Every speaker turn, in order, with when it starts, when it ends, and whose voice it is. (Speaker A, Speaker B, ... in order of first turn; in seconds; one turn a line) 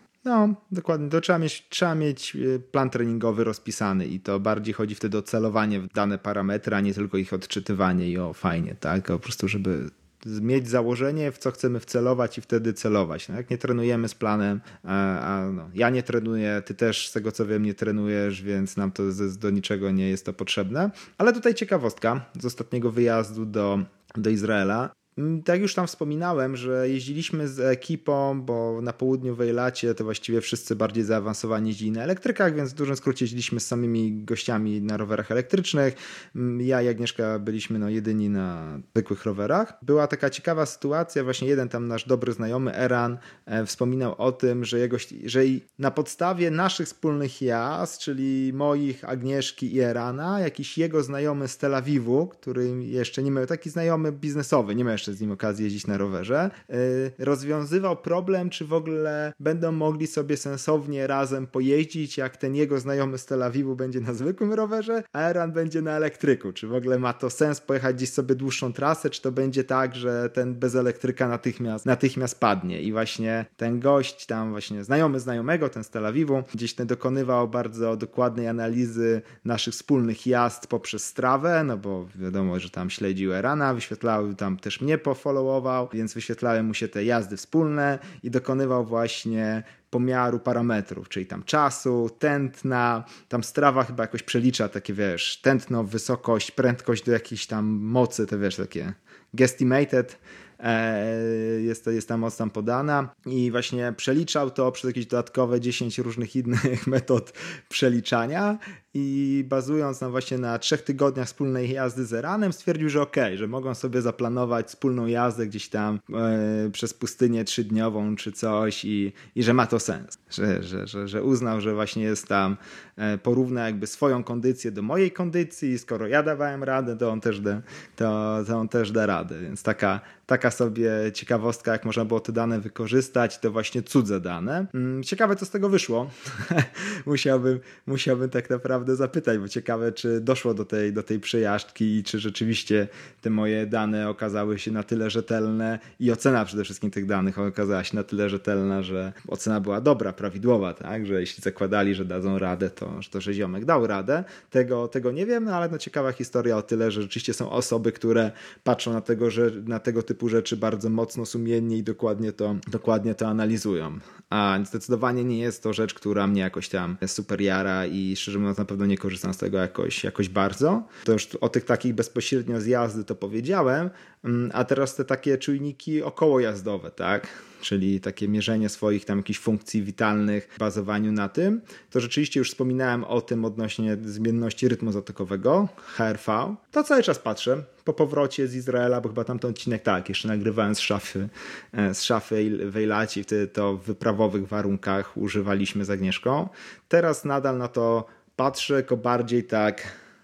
Speaker A: 0.2-199.8